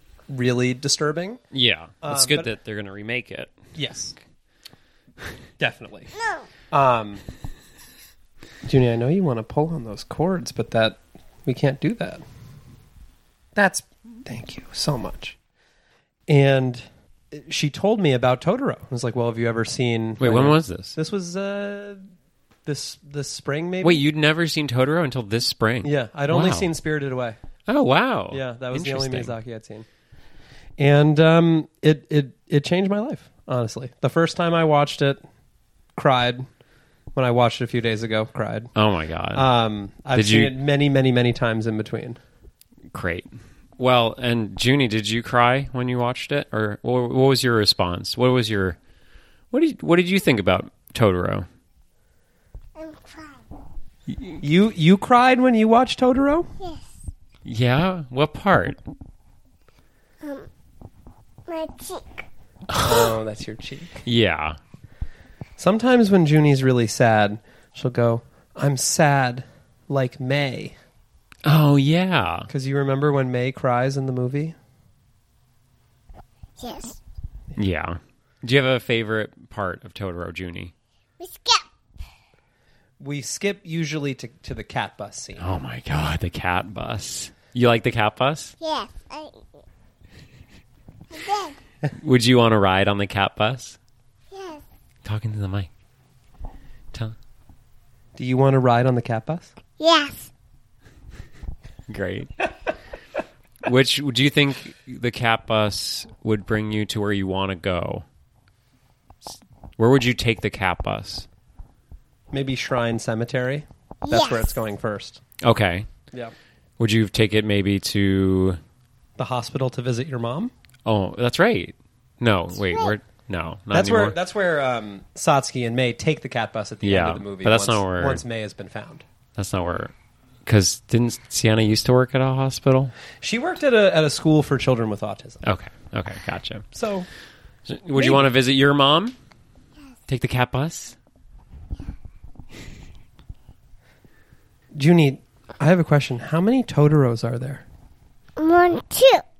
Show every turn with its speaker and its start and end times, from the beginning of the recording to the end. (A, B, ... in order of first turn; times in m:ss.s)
0:00.3-0:01.4 A
0:01.5-0:03.6 B
0:02.0-0:02.5 A
0:03.8-0:04.2 A
0:05.6-0:06.1 A
0:06.2-0:06.5 C
0:06.7-0:07.2 A
0:08.6-0:12.2 A
0:13.6-0:15.4 A
0:16.3-0:22.0 A
0:20.2-0:21.0 B
0:22.7-0:24.0 A
0:23.8-0:26.7 B
0:25.8-0:27.4 A
0:27.7-0:29.4 B
0:28.3-0:29.9 A
0:30.8-0:35.2 A
0:36.0-0:36.5 A
0:37.2-0:38.7 A
0:38.8-0:39.5 B
0:39.3-0:42.2 A
0:40.1-0:40.5 B
0:42.9-0:48.8 B
0:49.5-0:51.5 B
0:52.8-0:53.4 C
0:54.4-0:56.5 A
0:57.4-0:58.8 B
1:00.2-1:00.5 C
1:01.5-1:02.3 C
1:02.8-1:04.0 A
1:04.0-1:04.6 B
1:05.6-1:10.8 A
1:11.5-1:12.5 B
1:12.5-1:14.6 A
1:16.6-1:17.0 C
1:17.6-1:20.7 B
1:21.2-1:21.7 C
1:23.0-1:25.5 A
1:25.4-1:28.6 B
1:28.6-1:29.6 C
1:31.1-1:31.6 C
1:31.9-1:33.8 B
1:34.3-1:34.6 C
1:35.0-1:35.7 B
1:38.2-1:39.5 A
1:39.8-1:40.3 C
1:41.9-1:42.3 B
1:43.6-1:48.1 B
1:49.8-1:51.3 B
1:52.3-1:55.2 A
1:54.0-1:54.6 C
1:55.4-1:55.9 B
1:56.8-1:58.6 B
1:59.2-2:00.5 A
2:00.9-2:04.2 B
2:02.6-2:02.9 C
2:03.7-2:09.0 A
2:06.8-2:08.2 B
2:09.4-2:09.9 B
2:10.5-2:12.9 B
2:13.2-2:15.4 A
2:15.4-2:16.7 B
2:16.7-2:17.1 A
2:17.7-2:19.2 B
2:18.0-2:18.3 A
2:20.1-2:21.0 B
2:24.7-2:27.6 A
2:28.4-2:29.2 C